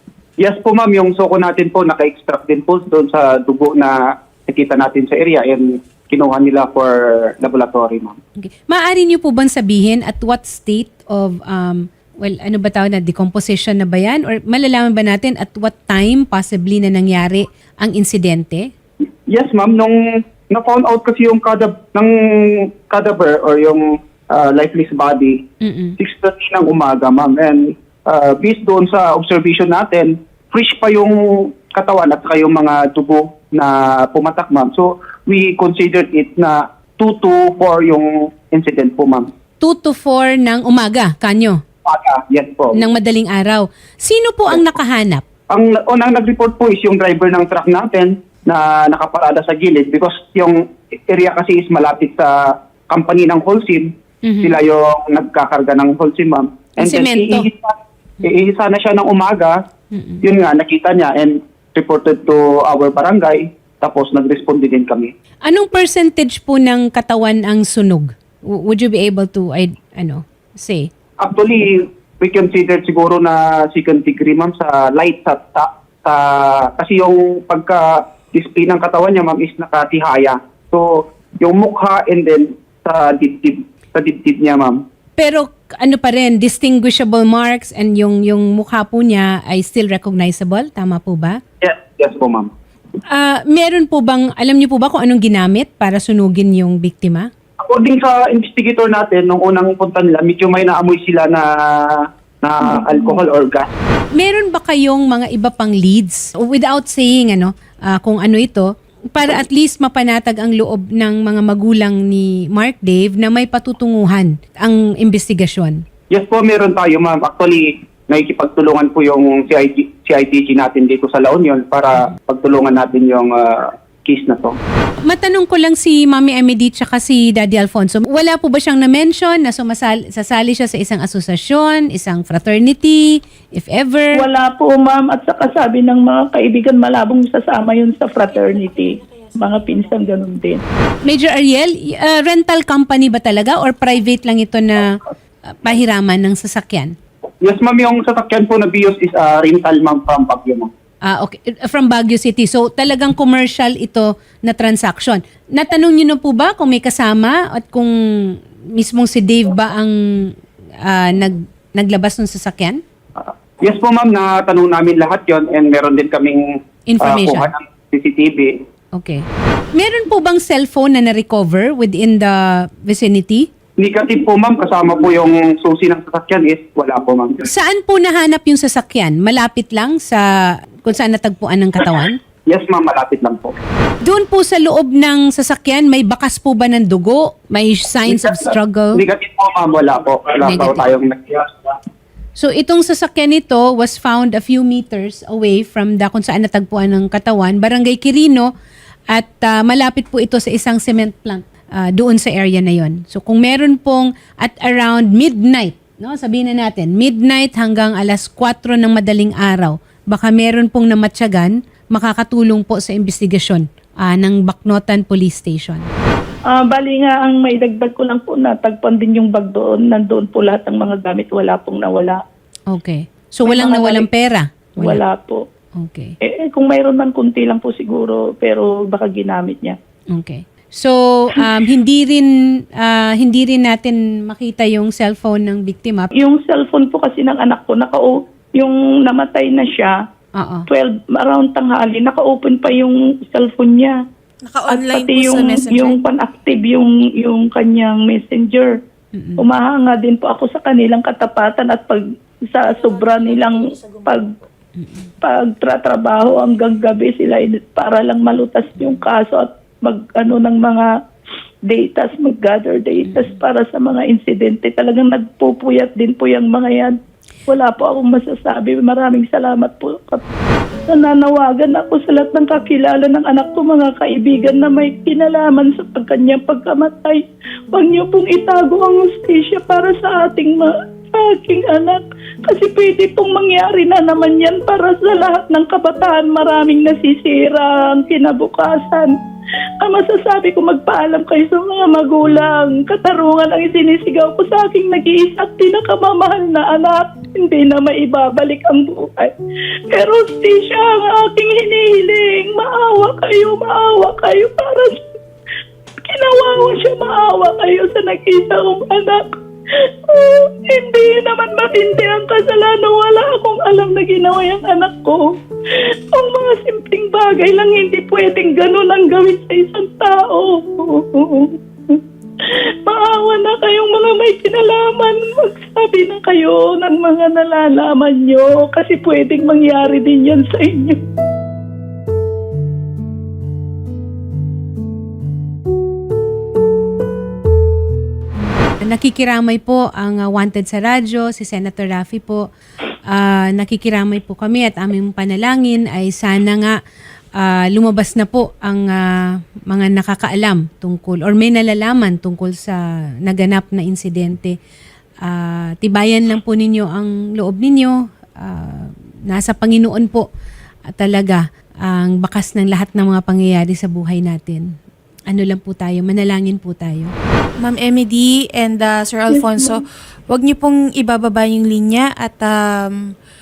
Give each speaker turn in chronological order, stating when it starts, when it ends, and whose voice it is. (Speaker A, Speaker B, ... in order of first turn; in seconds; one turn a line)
Speaker A: 0.4-4.0
Speaker A: 4.5-8.2
Speaker B: 8.4-18.6
Speaker A: 19.3-20.0
Speaker A: 20.5-25.4
Speaker B: 25.6-26.0
Speaker A: 26.0-39.3
Speaker B: 39.6-41.6
Speaker A: 41.9-42.8
Speaker B: 42.7-45.2
Speaker A: 45.5-52.3
Speaker A: 52.9-53.9
Speaker B: 54.2-54.5
Speaker A: 54.4-59.6
Speaker B: 56.8-57.5
Speaker B: 59.9-60.2
Speaker A: 60.2-65.1
Speaker B: 65.5-70.9
Speaker A: 71.2-80.9
Speaker A: 81.4-84.8
Speaker B: 85.2-91.4
Speaker A: 91.6-92.5
Speaker B: 93.1-97.3
Speaker A: 97.6-103.7
Speaker B: 104.2-115.8
Speaker A: 116.1-124.6
Speaker B: 125.1-134.2
Speaker C: 134.2-140.6
Speaker D: 138.5-139.3
Speaker B: 141.1-146.9
Speaker A: 147.4-150.7
Speaker B: 151.1-162.8
Speaker A: 163.2-166.5
Speaker B: 166.9-167.5
Speaker A: 167.0-168.6
Speaker B: 168.9-169.2
Speaker B: 169.8-173.5
Speaker A: 173.8-177.4
Speaker B: 177.5-180.2
Speaker B: 180.8-182.2
Speaker A: 182.5-183.6
Speaker B: 184.1-189.0
Speaker A: 188.1-191.8
Speaker B: 190.4-190.9
Speaker B: 192.4-198.5
Speaker B: 199.1-215.9
Speaker C: 216.5-222.2
Speaker B: 222.7-225.0
Speaker C: 223.5-224.1
Speaker C: 224.8-225.4
Speaker B: 225.8-226.1
Speaker C: 226.2-229.8
Speaker B: 230.1-236.1
Speaker C: 236.2-239.9
Speaker B: 240.4-240.7
Speaker C: 240.7-244.0
Speaker D: 244.5-246.0
Speaker C: 244.7-248.7
Speaker B: 249.1-249.4
Speaker C: 249.4-254.3
Speaker D: 252.6-254.4
Speaker B: 254.8-255.1
Speaker C: 255.2-260.9
Speaker C: 261.7-267.0
Speaker B: 263.1-263.3
Speaker C: 267.5-270.3
Speaker C: 270.9-277.2
Speaker C: 277.7-289.1
Speaker C: 289.8-299.3
Speaker C: 299.9-305.0
Speaker C: 306.1-309.3
Speaker C: 310.1-315.2
Speaker C: 316.1-331.0
Speaker B: 338.8-342.5
Speaker B: 343.1-346.8
Speaker B: 347.4-354.6
Speaker B: 355.2-360.3
Speaker B: 361.0-364.6
Speaker B: 365.3-367.1
Speaker D: 367.6-373.1
Speaker C: 369.3-369.8